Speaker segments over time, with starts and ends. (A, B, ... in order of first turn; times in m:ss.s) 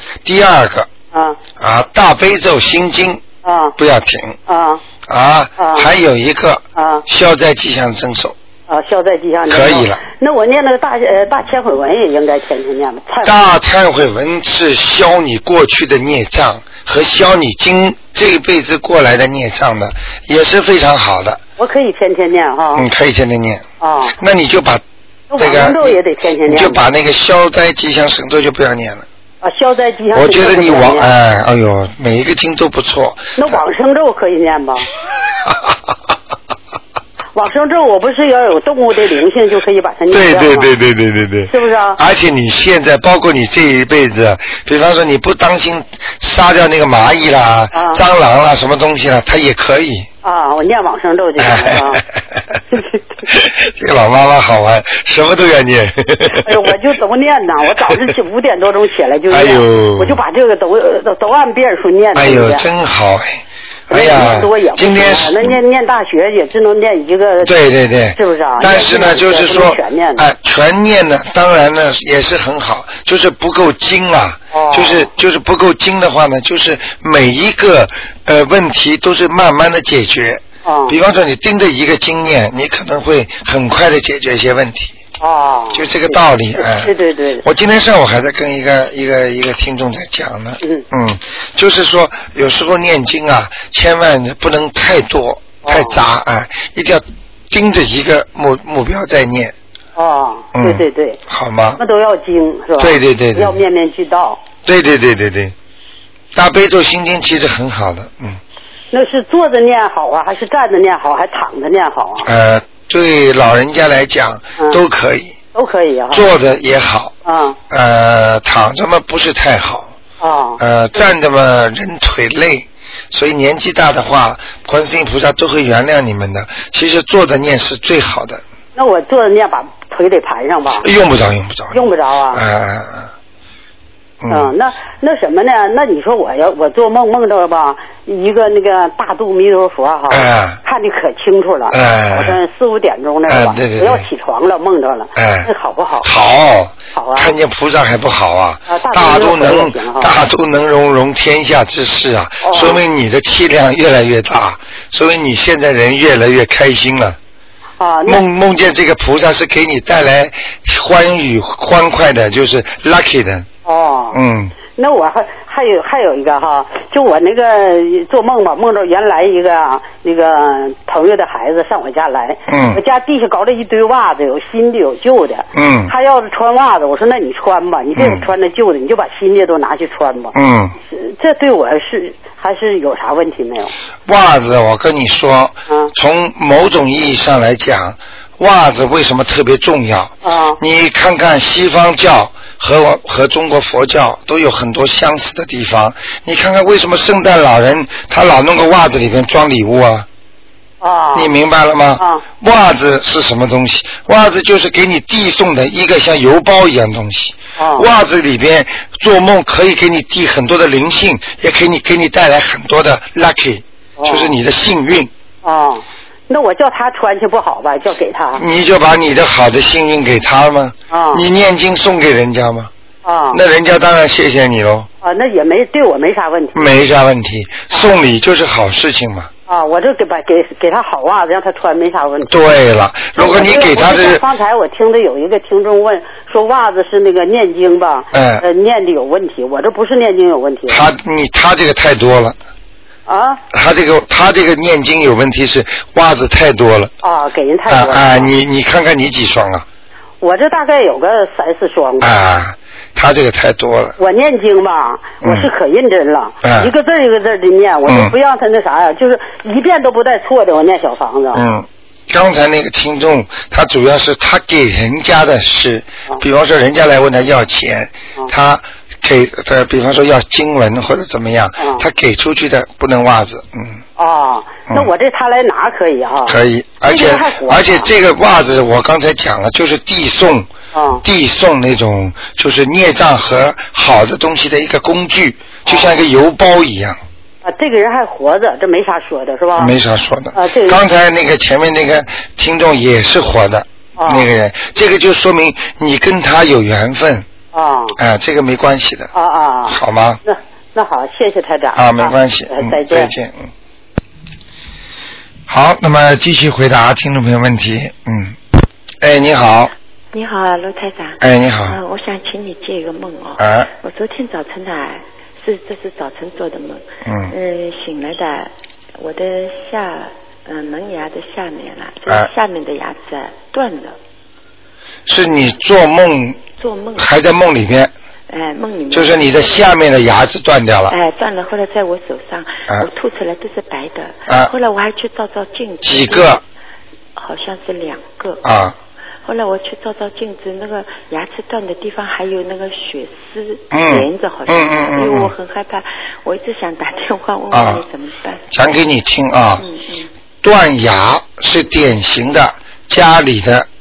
0:00.2-0:00.9 A
0:01.1-0:01.4 B
0:01.6-0:03.2 A
0:03.4-0:03.8 B
0:03.8-0:04.4 A
0:04.5-0:04.8 B
0:05.0-0:08.4 A
0:05.6-0:05.9 B
0:06.8-0:07.0 B
0:08.7-0:13.3 B
0:09.5-0:10.0 A
0:13.2-0:21.4 A
0:21.6-0:22.8 B
0:22.7-0:23.6 A
0:23.8-0:24.2 B
0:24.2-0:24.8 A
0:25.3-0:26.8 B
0:25.4-0:29.0 A
0:29.4-0:31.1 B
0:30.1-0:33.6 A
0:33.4-0:34.8 B
0:35.5-0:35.7 A
0:37.3-0:40.7 B
0:40.1-0:50.1 A
0:41.5-0:42.0 B
0:47.7-0:48.0 B
0:50.2-0:52.0 B
0:51.4-0:52.6 A
0:53.3-0:56.7 A
0:56.4-1:02.6 B
0:59.3-1:00.2 A
1:02.1-1:05.6 A
1:03.9-1:07.5 B
1:07.4-1:25.0 A
1:08.2-1:10.2 B
1:14.5-1:15.1 B
1:20.6-1:21.0 B
1:25.2-1:27.4 B
1:25.7-1:39.5 A
1:35.6-1:36.0 B
1:40.0-1:41.2 B
1:40.5-1:41.8 A
1:41.8-1:44.4 B
1:42.8-1:43.6 A
1:44.6-1:45.5 A
1:46.3-1:48.4 A
1:48.9-1:52.3 B
1:52.2-1:55.3 A
1:55.5-1:56.3 B
1:56.1-1:57.1 A
1:57.2-1:57.6 B
1:57.7-1:59.9 A
2:00.2-2:01.0 B
2:00.6-2:08.4 A
2:08.8-2:10.8 B
2:10.8-2:13.1 A
2:11.7-2:12.4 B
2:14.2-2:14.5 A
2:14.3-2:26.1 B
2:20.1-2:20.6 A
2:21.7-2:22.4 A
2:23.3-2:24.0 A
2:25.1-2:25.5 A
2:26.0-2:37.2 A
2:26.9-2:27.3 B
2:28.7-2:30.1 B
2:32.4-2:32.8 B
2:37.8-2:38.2 B
2:38.0-2:43.5 A
2:43.6-2:44.2 B
2:44.1-2:44.5 A
2:44.7-3:00.3 B
2:52.5-2:52.8 A
2:55.5-2:55.9 A
2:58.0-2:58.2 A
3:00.3-3:00.7 A
3:00.9-3:03.7 B
3:04.0-3:20.0 A
3:10.2-3:10.6 B
3:20.8-3:21.3 B
3:21.1-3:35.1 A
3:27.6-3:27.9 B
3:34.0-3:34.4 B
3:35.4-3:38.4 B
3:38.4-3:42.7 A
3:40.9-3:41.2 B
3:43.0-3:43.4 B
3:43.3-3:44.9 A
3:45.0-3:46.7 B
3:46.5-3:49.3 A
3:49.5-3:52.4 B
3:52.3-3:54.2 A
3:53.1-4:00.9 B
3:58.1-3:58.4 A
4:00.7-4:02.4 A
4:03.1-4:03.4 B
4:03.5-4:06.9 A
4:07.0-4:08.3 B
4:07.7-4:09.6 A
4:10.2-4:12.1 B
4:12.0-4:13.9 A
4:14.0-4:21.4 B
4:16.4-4:16.7 A
4:21.3-4:33.8 A
4:31.6-4:31.8 B
4:34.0-4:37.9 B
4:36.3-4:40.5 A
4:40.7-4:41.0 B
4:41.0-4:47.0 A
4:45.7-4:45.9 B
4:47.4-4:49.7 B
4:49.6-4:57.2 A
4:50.3-4:50.8 B
4:54.0-4:54.3 B
4:57.5-4:58.0 B
4:58.0-4:59.1 A
4:59.1-5:03.1 B
4:59.7-5:00.2 A
5:01.7-5:03.5 A
5:05.5-5:08.4 A
5:09.0-5:09.7 A
5:10.1-5:24.0 C
5:11.2-5:11.8 A
5:13.4-5:13.7 A
5:17.0-5:17.3 A
5:25.1-5:26.4 A
5:26.6-5:27.1 C
5:27.0-5:27.9 A
5:28.3-5:29.8 C
5:28.9-5:31.0 A
5:30.9-5:36.4 C
5:34.3-5:34.5 A
5:35.8-5:36.4 A
5:37.1-5:38.4 C
5:38.4-5:38.8 A
5:39.2-5:48.5 C
5:43.7-5:45.3 A
5:47.5-5:47.8 A
5:48.5-5:49.6 A
5:49.6-5:50.1 C
5:50.4-5:53.7 A